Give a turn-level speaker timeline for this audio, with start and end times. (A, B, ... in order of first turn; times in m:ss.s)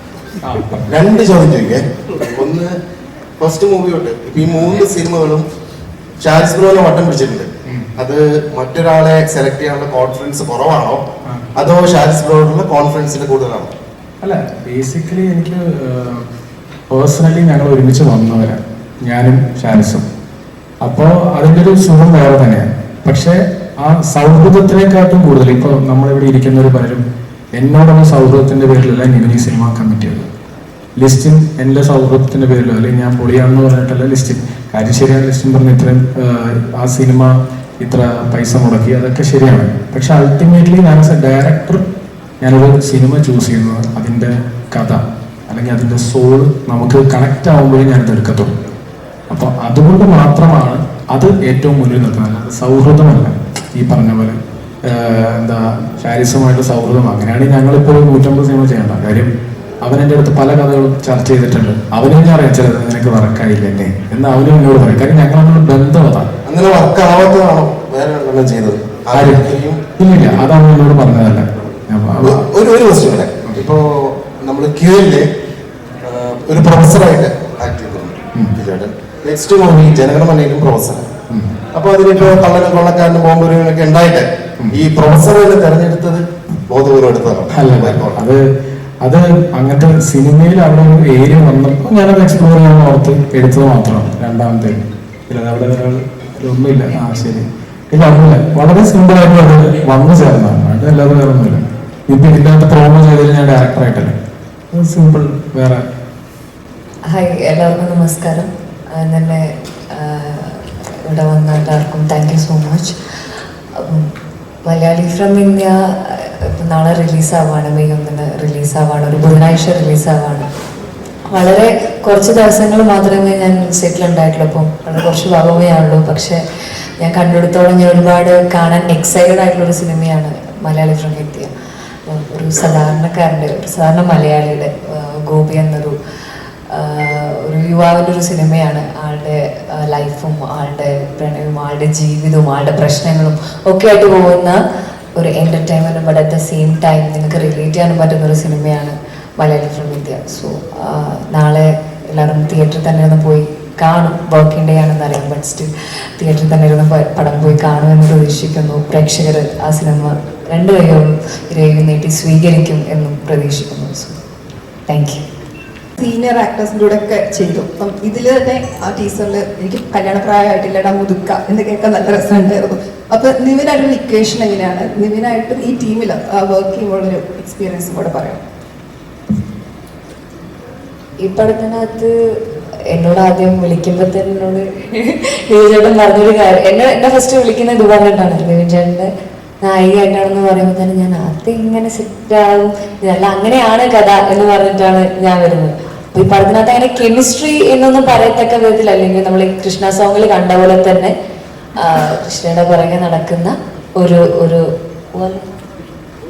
0:00.4-0:00.9 A
0:00.9-0:02.7 B
0:03.4-0:05.4 B
0:06.2-0:11.0 B
0:11.6-0:13.7 B
0:14.2-0:16.2 A
0:16.9-0:20.0 A
0:20.8-0:27.0 A
0:27.6-0:30.3 A
0:31.0-0:41.8 A
0:42.4-0:48.5 A
0:49.3-0:59.3 A
0:59.8-1:06.3 A
1:06.4-1:09.8 B
1:09.1-1:12.4 A
1:12.2-1:15.3 B
1:16.0-1:21.0 B
1:21.7-1:28.2 B
1:27.5-1:28.4 A
1:29.0-1:44.1 A
1:44.7-1:45.8 A
1:47.1-1:52.9 C
1:53.8-1:54.1 C
1:54.7-2:00.5 C
2:01.3-2:06.4 C
2:07.0-2:11.5 C
2:12.1-2:16.0 C
2:16.7-2:24.6 C
2:25.2-2:44.2 C
2:44.9-2:45.2 C
2:46.0-2:58.4 D
3:01.2-3:02.1 C
3:02.9-3:09.1 C
3:09.6-3:21.1 C
3:21.8-3:25.4 C